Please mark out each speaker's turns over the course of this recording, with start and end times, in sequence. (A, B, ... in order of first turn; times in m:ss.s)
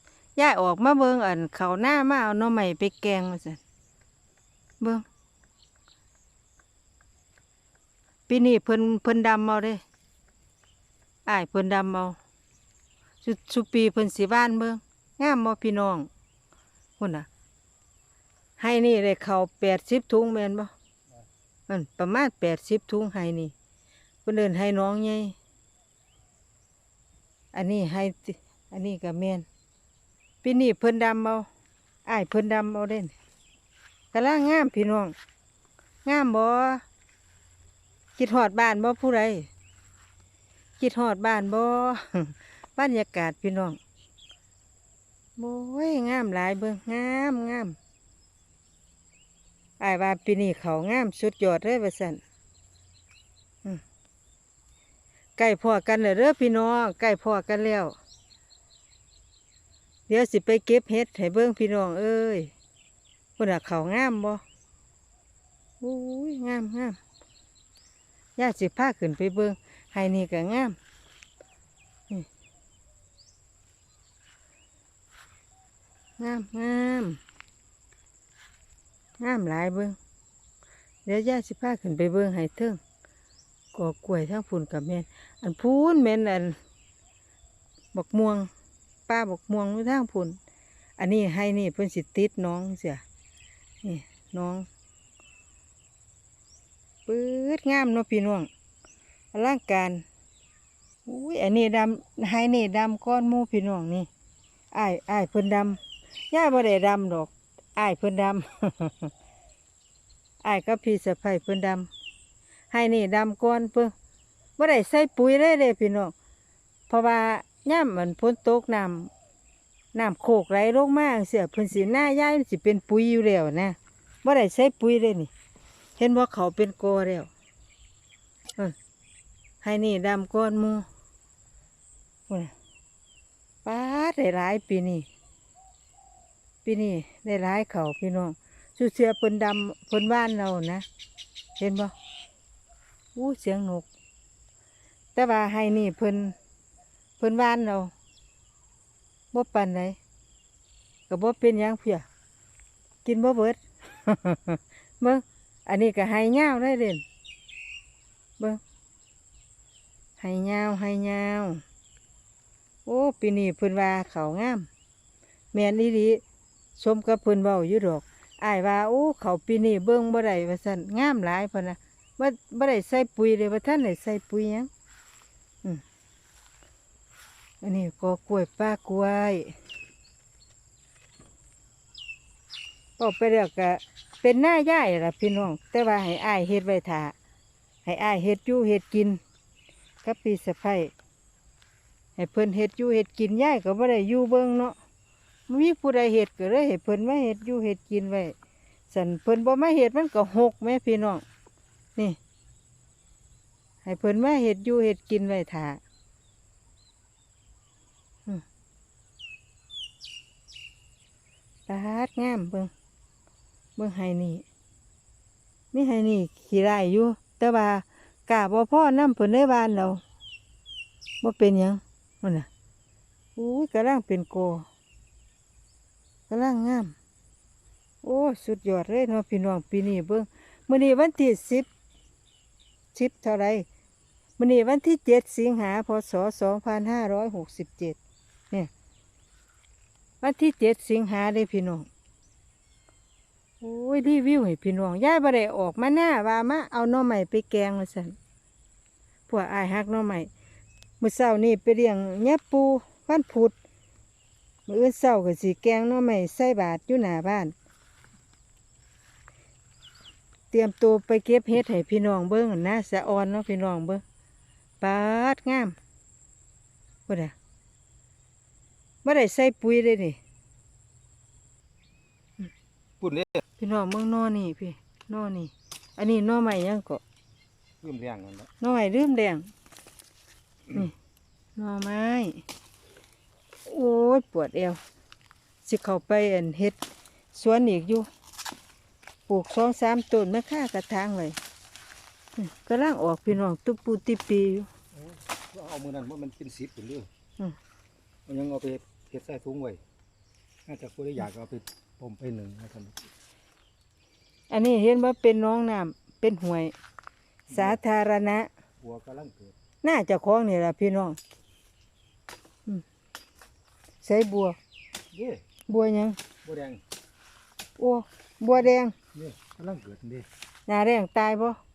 0:00.4-0:03.6 A
0:04.8-0:05.0 A
0:08.3-0:09.8 A
0:11.2-0:12.2 A
0:13.2-0:16.1 A
0:17.0-0:17.3 A
0:18.6-0:20.7 A
0:21.7-0:23.5 A
0:24.2-0:25.4 A
0:27.5-0:29.4 A
0:30.4-0:31.5 A
0:32.0-0:33.1 A
0:34.1-0:35.1 A
0:36.0-0:36.8 A
0:38.2-0:39.5 A
0:40.8-0:43.8 A
0:45.4-0:47.8 A
0:49.8-0:52.2 A
0:55.4-0:57.9 A
1:00.1-1:02.5 A
1:03.4-1:04.4 A
1:05.8-1:07.0 A
1:08.4-1:10.8 A
1:16.2-1:17.2 A
1:19.2-1:20.0 A
1:21.0-1:22.8 A
1:23.7-1:26.6 A
1:27.9-1:28.5 A
1:29.1-1:30.4 A
1:31.0-1:33.0 A
1:33.8-1:34.7 A
1:37.1-1:38.5 A
1:39.3-1:40.0 A
1:41.0-1:44.1 A
1:44.7-1:45.8 A
1:46.3-1:49.1 A
1:50.4-1:51.9 A
1:52.7-1:53.9 A
1:54.6-1:56.1 A
1:56.9-1:59.1 A
1:59.9-2:05.3 A
2:06.0-2:07.3 A
2:09.6-2:10.8 A
2:12.3-2:12.5 A
2:13.6-2:15.1 A
2:16.6-2:20.8 A
2:21.6-2:21.9 A
2:23.2-2:23.8 A
2:25.1-2:26.3 A
2:27.2-2:27.9 A
2:29.3-2:30.0 A
2:31.1-2:32.0 A
2:33.0-2:37.0 A
2:40.2-2:41.6 A
2:42.8-2:44.7 A
2:45.5-2:46.2 A
2:46.8-2:54.7 A
2:57.6-2:59.5 A
3:03.0-3:07.1 A
3:07.8-3:09.2 A
3:10.0-3:10.9 A
3:12.2-3:14.8 A
3:15.5-3:18.3 A
3:18.9-3:21.2 A
3:23.8-3:25.8 A
3:31.7-3:32.7 A
3:33.8-3:34.4 A
3:35.7-3:40.0 A
3:41.2-3:42.5 A
3:43.4-3:44.6 A
3:46.3-3:46.9 A
3:48.0-3:51.7 A
3:52.9-3:53.7 A
3:54.4-3:58.0 A
4:00.2-4:01.9 A
4:03.6-4:08.2 A
4:09.3-4:10.3 A
4:11.0-4:13.5 A
4:14.7-4:17.5 A
4:20.5-4:24.0 A
4:24.8-4:25.8 A
4:27.1-4:27.3 A
4:29.0-4:30.2 A
4:33.0-4:33.4 B
4:33.6-4:37.0 A
4:37.8-4:38.5 B
4:38.6-4:39.5 A
4:41.6-4:42.4 A
4:43.6-4:44.8 A
4:45.6-4:46.8 A
4:47.3-4:48.1 A
4:49.3-4:51.4 A
4:52.4-4:54.7 A
4:54.9-4:57.1 B
4:58.3-4:59.8 B
5:00.7-5:03.0 B
5:04.5-5:06.7 A
5:07.5-5:08.5 A
5:07.5-5:07.8 B
5:08.8-5:09.5 B
5:09.8-5:11.2 A
5:14.0-5:14.6 A
5:15.1-5:15.4 B
5:15.7-5:16.2 A
5:16.4-5:16.8 B
5:17.8-5:18.9 A
5:19.1-5:20.3 B
5:20.7-5:21.6 A